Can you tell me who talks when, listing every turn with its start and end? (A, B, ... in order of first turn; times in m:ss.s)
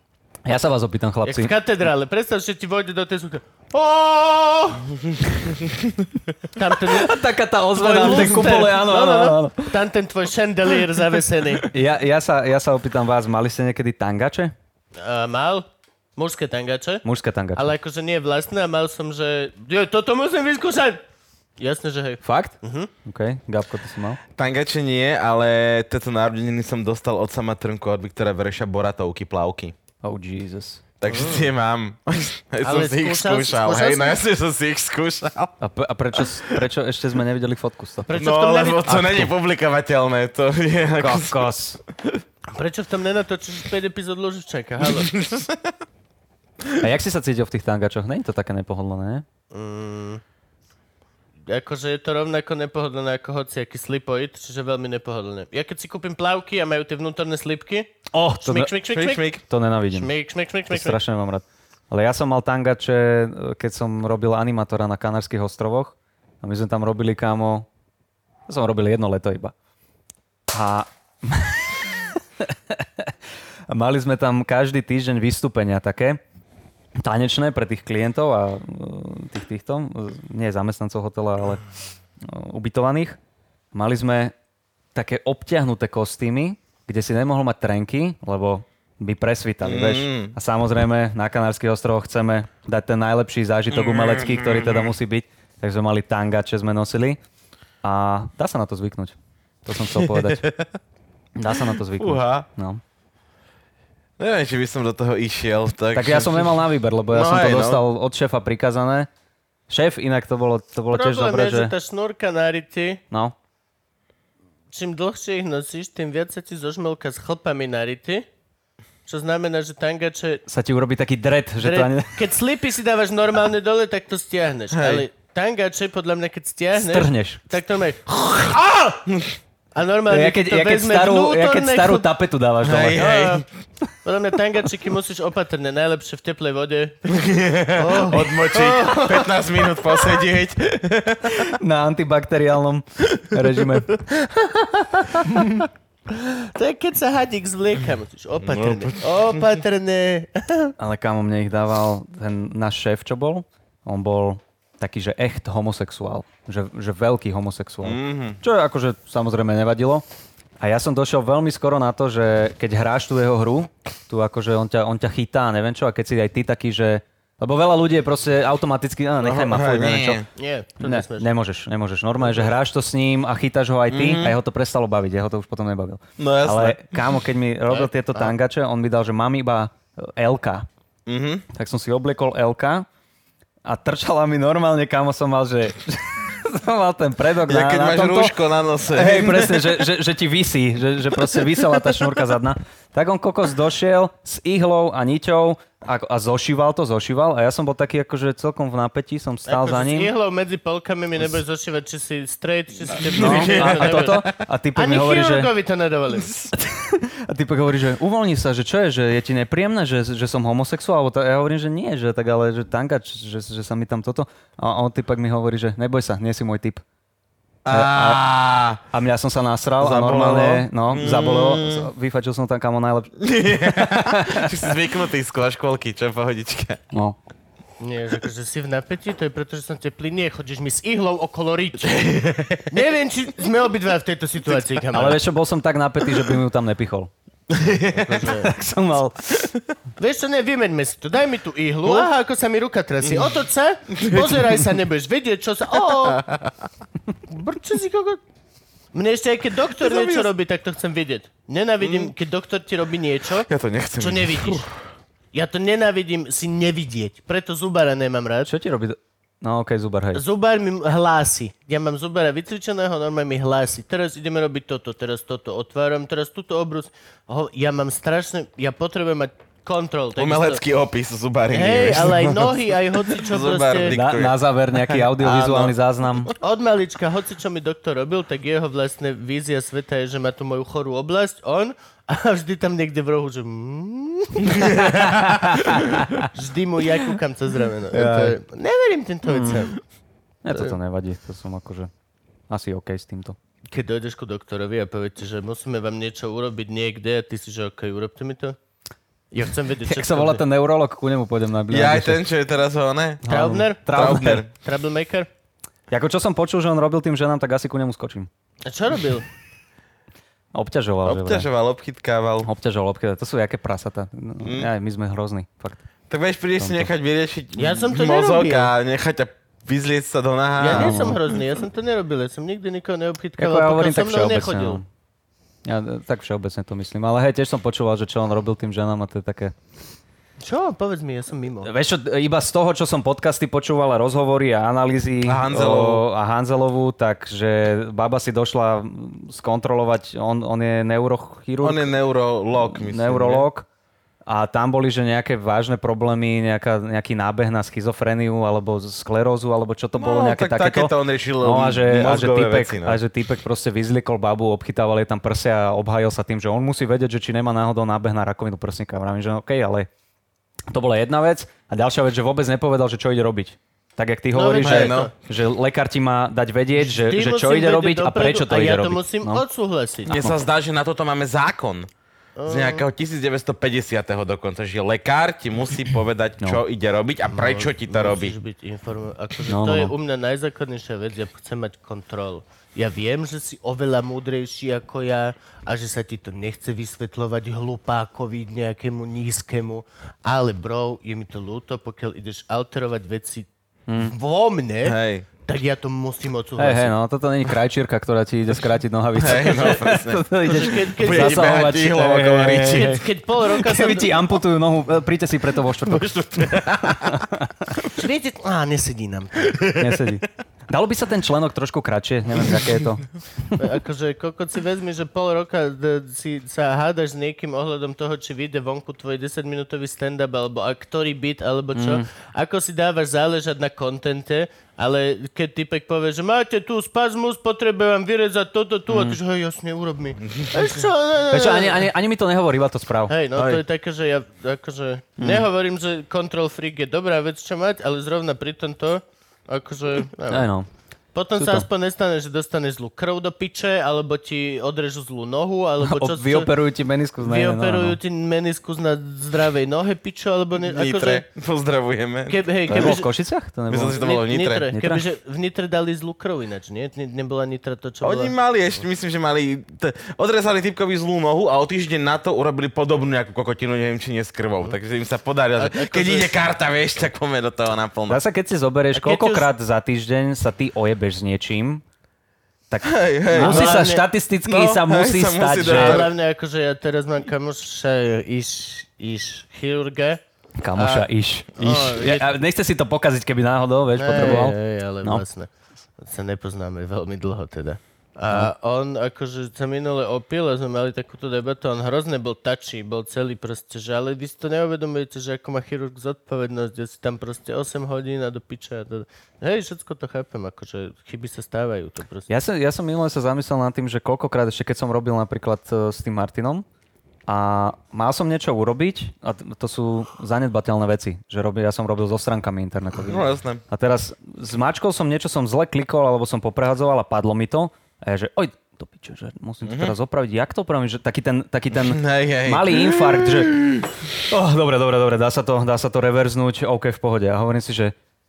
0:00.4-0:01.5 A
0:01.2-0:04.9 B
0:05.1-0:05.9 C
0:06.5-0:07.2 B
0:06.9-0:09.8 A
0:07.7-0:11.7 B
0:11.7-0:14.5 A
0:15.0-0:17.0 B
0:17.0-0:17.7 A
0:17.6-0:21.0 B
0:21.6-0:22.9 B
0:22.2-0:24.2 A
0:24.4-0:29.7 C
0:30.0-0:30.8 A
0:31.0-0:35.5 C
0:31.1-0:31.5 B
0:32.6-0:34.2 B
0:35.6-0:38.1 A
0:36.2-0:36.6 C
0:38.1-0:39.1 B
0:38.1-0:41.5 C
0:38.9-0:39.3 A
0:41.0-0:41.8 A
0:42.5-0:45.1 B
0:44.8-0:45.7 C
0:46.8-0:49.2 A
0:49.5-0:50.2 B
0:51.5-0:59.3 B
0:58.1-0:58.7 A
0:58.9-0:59.4 C
0:59.5-1:00.1 A
0:59.9-1:01.0 B
1:00.7-1:07.6 A
1:08.5-1:09.5 A
1:10.5-1:13.1 A
1:13.7-1:16.2 A
1:17.0-1:21.6 A
1:22.2-1:23.2 A
1:23.7-1:24.3 A
1:24.9-1:37.2 A
1:29.6-1:30.3 C
1:33.7-1:34.9 C
1:37.8-1:40.5 A
1:39.9-1:40.7 C
1:41.4-1:42.8 A
1:42.0-1:42.5 C
1:44.2-1:47.8 C
1:45.9-1:49.1 A
1:49.7-1:51.7 A
1:50.9-1:53.0 B
1:54.7-1:58.3 B
1:59.0-2:00.4 B
2:00.5-2:02.2 A
2:01.6-2:08.5 B
2:04.7-2:05.0 C
2:06.8-2:07.4 A
2:08.5-2:09.4 C
2:09.7-2:12.1 B
2:10.1-2:13.0 A
2:12.6-2:13.5 C
2:12.9-2:13.5 B
2:14.0-2:17.0 B
2:17.0-2:21.5 C
2:17.7-2:20.2 B
2:21.3-2:24.0 A
2:24.1-2:30.7 B
2:28.5-2:29.5 C
2:30.8-2:40.0 A
2:37.8-2:38.4 C
2:40.6-2:50.2 A
2:49.2-2:50.3 C
2:50.3-2:51.3 B
2:50.8-3:00.7 A
2:53.9-2:54.4 C
2:56.2-2:57.0 C
2:57.7-2:58.3 B
3:01.0-3:01.4 C
3:01.5-3:02.8 A
3:03.6-3:08.4 A
3:07.5-3:09.9 C
3:08.9-3:20.1 A
3:11.3-3:12.0 C
3:19.5-3:26.5 B
3:23.1-3:25.5 A
3:23.1-3:24.0 C
3:26.5-3:36.8 A
3:37.6-3:38.8 C
3:37.7-3:38.2 A
3:38.9-3:44.7 A
3:39.8-3:41.9 C
3:43.2-3:46.8 C
3:47.8-3:52.1 B
3:51.9-3:52.7 C
3:52.7-3:55.2 B
3:54.9-3:57.1 A
3:57.5-3:58.1 C
3:57.8-3:58.5 B
3:58.2-3:59.5 A
4:00.0-4:06.3 B
4:03.0-4:03.4 C
4:03.9-4:04.6 C
4:07.3-4:08.2 B
4:08.9-4:14.7 B
4:09.8-4:10.3 C
4:11.8-4:12.1 C
4:13.4-4:14.7 C
4:15.3-4:18.5 B
4:18.4-4:20.2 A
4:20.1-4:30.6 B
4:30.2-4:34.4 C
4:31.5-4:34.0 B
4:33.9-4:36.3 A
4:34.9-4:35.7 C
4:36.3-4:49.8 B
4:45.1-4:46.3 A
4:47.9-4:48.4 A
4:49.3-4:49.6 A
4:50.4-4:51.9 A
4:52.5-4:53.4 A
4:53.7-4:58.6 B
4:59.3-5:00.4 B
4:59.8-5:02.2 A
5:01.7-5:03.2 C
5:03.2-5:04.4 A
5:03.3-5:05.3 B
5:03.9-5:04.5 C
5:05.9-5:08.3 A
5:08.6-5:09.2 B
5:10.5-5:11.5 A
5:11.0-5:12.5 C
5:12.4-5:15.8 A
5:14.4-5:14.7 C
5:16.1-5:21.2 C
5:16.6-5:16.9 A
5:17.6-5:18.7 B
5:20.6-5:24.8 B
5:20.7-5:21.2 A
5:23.4-5:24.8 A
5:25.6-5:29.5 A
5:30.4-5:31.7 B
5:31.6-5:41.9 A
5:35.2-5:36.0 C
5:41.6-5:43.5 C
5:42.6-5:43.6 A
5:44.3-5:59.9 A
5:50.0-5:53.0 C
6:00.7-6:09.4 A
6:04.3-6:05.1 B
6:04.6-6:05.1 C
6:06.8-6:10.2 B
6:10.1-6:11.9 C
6:12.4-6:12.8 B
6:12.5-6:18.3 C
6:17.3-6:36.9 B
6:19.5-6:19.9 A
6:33.9-6:34.1 A
6:34.8-6:35.3 C
6:36.6-6:47.7 A
6:39.1-6:43.0 C
6:40.4-6:41.6 B
6:42.7-6:44.1 B
6:45.9-6:47.2 C
6:47.9-6:49.8 B
6:49.8-6:53.1 A
6:53.6-7:11.9 B
7:01.7-7:02.0 A
7:08.9-7:09.2 A
7:11.3-7:13.1 A
7:13.1-7:20.5 B
7:13.4-7:13.6 C
7:15.2-7:15.4 A
7:20.3-7:20.7 A
7:21.1-7:26.5 B
7:21.4-7:21.6 A
7:25.8-7:28.0 A
7:27.2-7:31.2 B
7:30.6-7:33.0 C
7:32.3-7:33.1 B
7:32.7-7:34.0 A
7:33.7-7:34.7 C
7:33.9-7:38.3 B
7:34.7-7:35.0 A
7:38.0-7:48.2 C
7:45.6-7:46.3 B
7:48.1-7:51.8 A
7:48.9-7:49.5 B
7:52.7-7:56.1 A
7:52.8-7:53.8 C
7:53.4-7:54.0 B
7:54.4-7:56.1 C
7:55.6-8:00.2 B
8:00.6-8:05.2 A
8:00.8-8:02.3 B
8:04.0-8:22.3 B
8:22.3-8:26.6 A
8:27.3-8:47.9 A
8:33.0-8:33.6 C
8:39.6-8:39.9 C
8:41.7-8:43.8 C